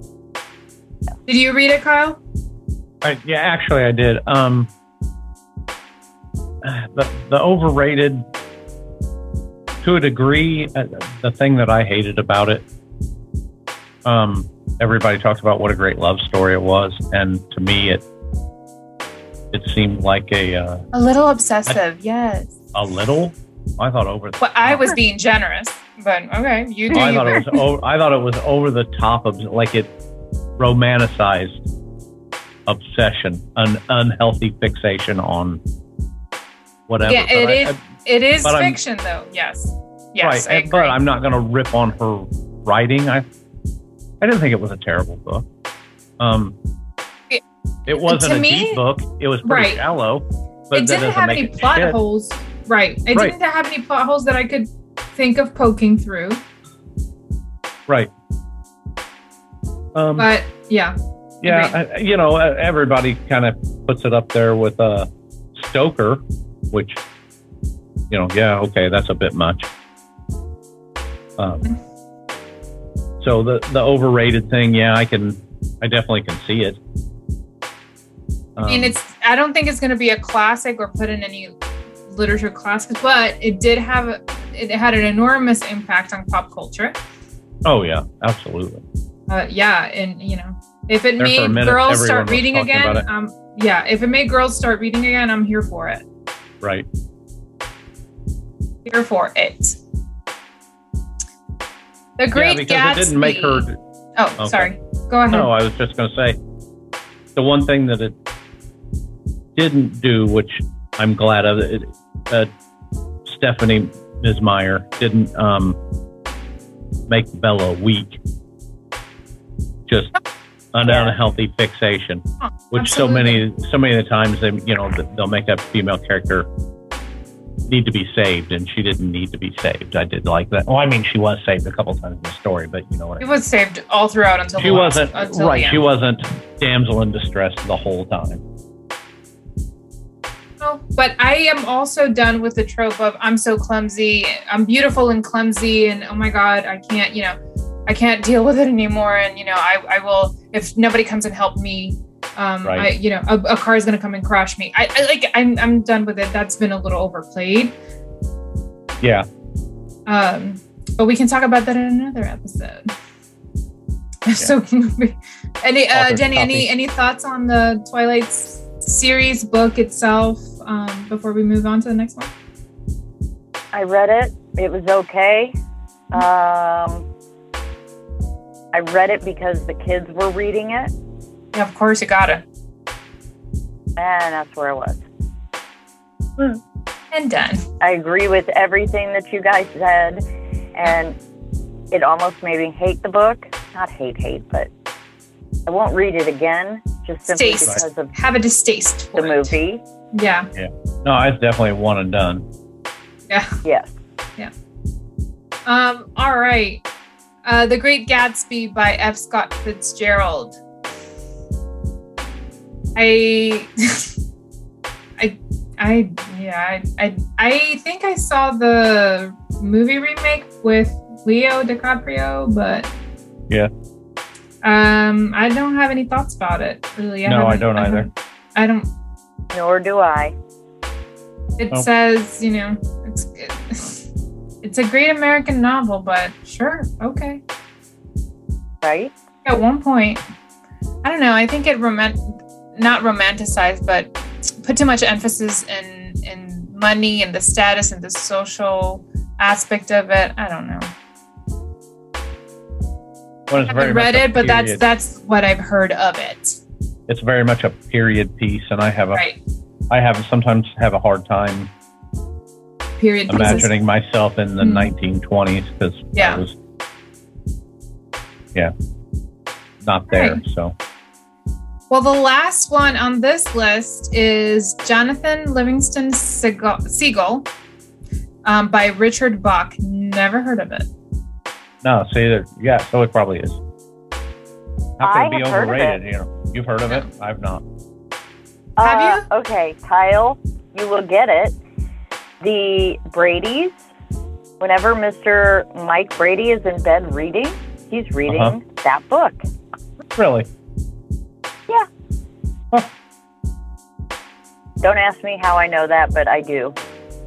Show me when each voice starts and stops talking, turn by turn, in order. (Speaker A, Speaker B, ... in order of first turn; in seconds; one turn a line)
Speaker A: 1.3-2.2
Speaker B: 3.0-4.7
Speaker B: 6.6-8.2
Speaker B: 9.8-12.7
Speaker B: 14.1-18.0
Speaker B: 19.5-20.9
Speaker A: 20.9-22.6
Speaker B: 22.7-24.9
Speaker A: 24.4-27.6
Speaker B: 26.9-29.9
Speaker B: 30.6-31.6
Speaker B: 32.7-35.6
Speaker B: 36.9-37.8
Speaker A: 37.0-41.0
Speaker B: 38.4-38.8
Speaker B: 40.2-43.2
Speaker B: 44.2-45.5
Speaker B: 46.2-46.6
Speaker B: 47.9-52.0
Speaker A: 48.0-48.8
Speaker A: 49.4-49.8
Speaker A: 50.7-56.4
Speaker B: 60.0-60.3
Speaker A: 60.2-61.8
Speaker B: 61.4-67.0
Speaker B: 68.1-69.7
Speaker B: 71.4-71.7
Speaker B: 73.2-76.8
Speaker B: 78.6-79.0
Speaker A: 78.7-81.5
Speaker A: 82.1-87.0
Speaker B: 87.7-88.8
Speaker A: 89.3-96.0
Speaker B: 91.2-93.1
Speaker B: 96.6-96.9
Speaker A: 98.8-99.8
Speaker A: 102.2-105.5
Speaker B: 102.3-103.8
Speaker B: 104.4-104.7
Speaker B: 105.3-106.4
Speaker B: 107.3-108.2
Speaker B: 109.5-112.5
Speaker B: 113.2-115.8
Speaker B: 117.1-118.2
Speaker B: 119.9-120.2
Speaker B: 120.7-126.5
Speaker A: 122.4-123.4
Speaker B: 127.7-133.3
Speaker A: 133.2-135.8
Speaker B: 134.6-138.4
Speaker A: 140.6-147.4
Speaker A: 147.9-157.8
Speaker B: 152.6-152.9
Speaker B: 159.0-159.3
Speaker A: 160.1-162.9
Speaker A: 164.3-172.3
Speaker B: 165.9-166.7
Speaker C: 173.7-175.5
Speaker C: 176.1-177.1
Speaker C: 178.7-180.9
Speaker A: 181.5-182.4
Speaker C: 184.0-185.0
Speaker A: 187.1-187.6
Speaker C: 187.8-190.2
Speaker C: 190.8-191.2
Speaker C: 191.9-194.7
Speaker C: 195.7-198.1
Speaker A: 197.3-199.5
Speaker C: 199.2-199.8
Speaker A: 200.1-200.5
Speaker B: 200.6-202.5
Speaker A: 203.3-203.6
Speaker C: 203.6-203.9
Speaker A: 205.7-206.8
Speaker A: 207.4-210.6
Speaker A: 213.0-214.1
Speaker A: 215.2-222.9
Speaker A: 224.6-228.9
Speaker B: 227.3-228.1
Speaker C: 229.5-230.3
Speaker A: 231.6-234.0
Speaker A: 234.6-237.4
Speaker C: 238.8-239.1
Speaker A: 239.4-240.2
Speaker A: 241.0-244.1
Speaker A: 244.6-250.9
Speaker B: 253.5-254.8
Speaker A: 253.6-256.6
Speaker B: 257.1-259.2
Speaker B: 259.9-261.7
Speaker A: 263.0-263.7
Speaker B: 263.3-266.6
Speaker A: 264.6-264.9
Speaker A: 266.1-266.4
Speaker B: 269.8-270.8
Speaker A: 270.1-270.4
Speaker A: 271.9-277.5
Speaker A: 278.4-280.9
Speaker B: 281.8-283.6
Speaker B: 285.0-287.6
Speaker C: 285.0-286.0
Speaker C: 288.8-291.6
Speaker A: 288.8-289.3
Speaker C: 292.4-293.7
Speaker C: 294.6-299.4
Speaker B: 298.3-298.5
Speaker B: 300.2-300.5
Speaker C: 304.8-306.8